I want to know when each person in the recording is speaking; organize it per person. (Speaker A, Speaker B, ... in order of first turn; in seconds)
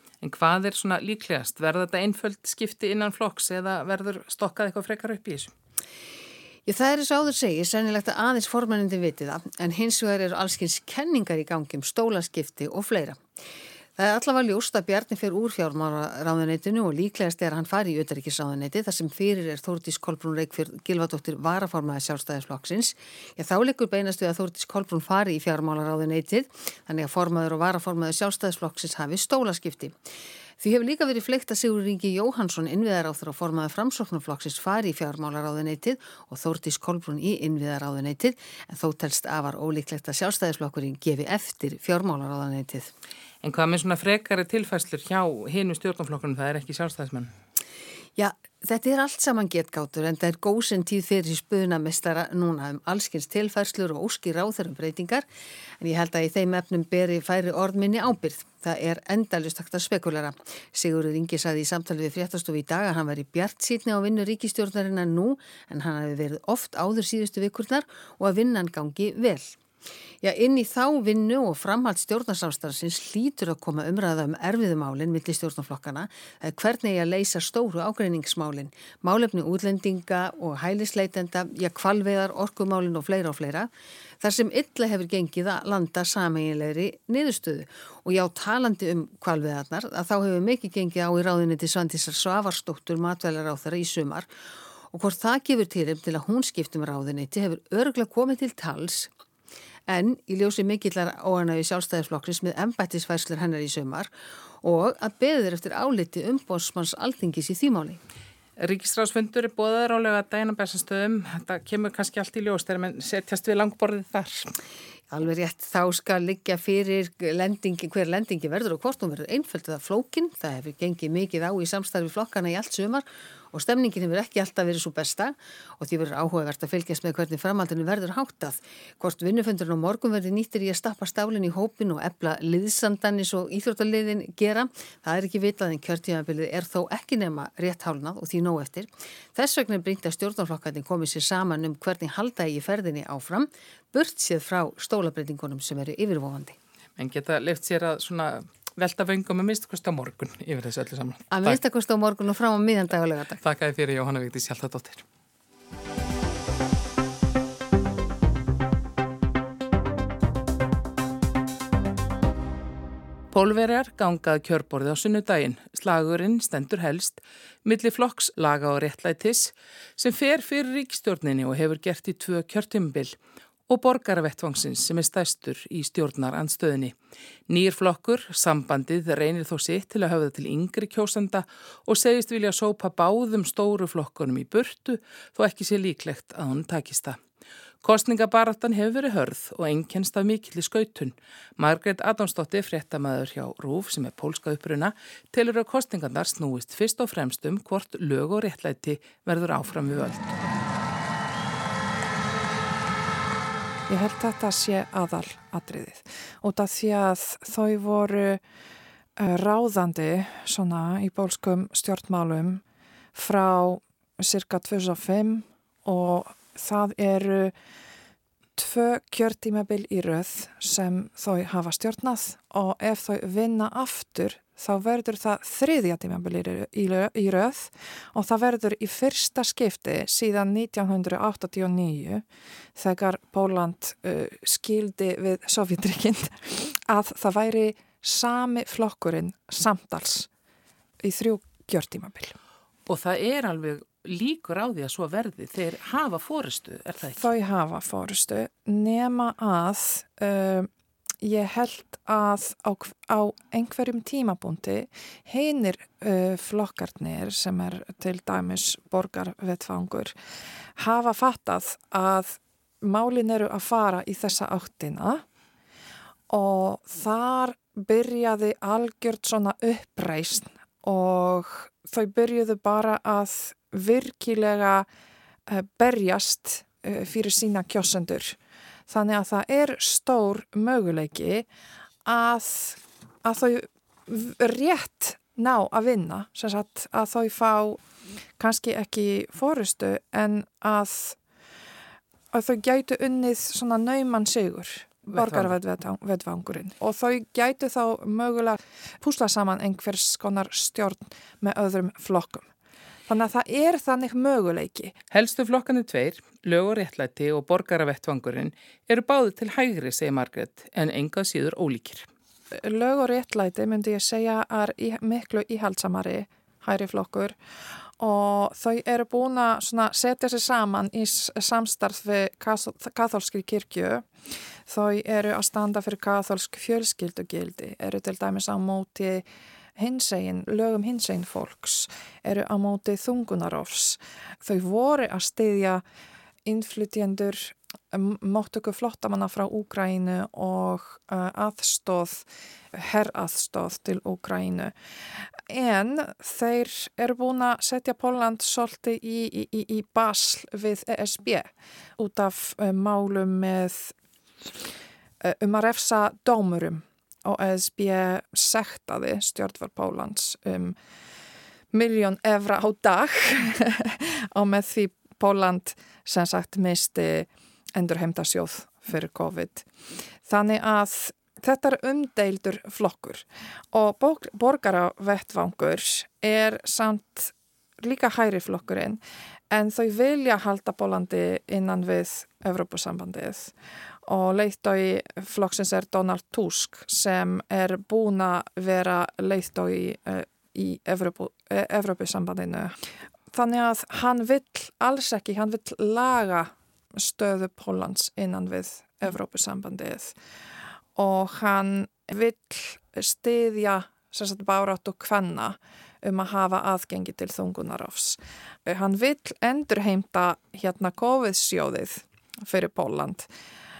Speaker A: 0.2-5.5, 43.4-47.3, 108.6-114.5, 147.0-151.6, 153.4-155.0, 163.3-173.2, 173.7-176.9, 177.5-187.2, 187.8-200.4, 242.9-247.3, 295.2-295.5, 305.1-312.1
Speaker B: 6.7-13.2, 14.0-30.0, 30.6-42.9, 48.1-55.2, 55.8-69.6, 70.2-83.7, 84.2-94.3, 94.9-99.1, 99.9-104.1, 104.6-108.0, 115.1-146.6, 151.3-153.4
Speaker C: 203.9-208.4, 209.2-212.6, 213.1-217.5, 218.6-232.2, 232.8-240.3, 241.0-242.3, 247.2-250.7, 251.2-260.1, 260.8-265.2, 266.3-274.9, 275.5-278.4, 278.9-281.5, 282.0-287.8, 288.4-291.2, 292.3-302.5, 303.1-304.9, 312.5-317.4, 318.0-324.1, 324.7-329.2, 329.8-335.8, 336.4-344.7, 345.5-353.9, 355.2-360.7, 361.7-369.7, 370.2-379.0, 379.5-383.5, 384.1-392.8, 393.3-400.1, 400.9-413.3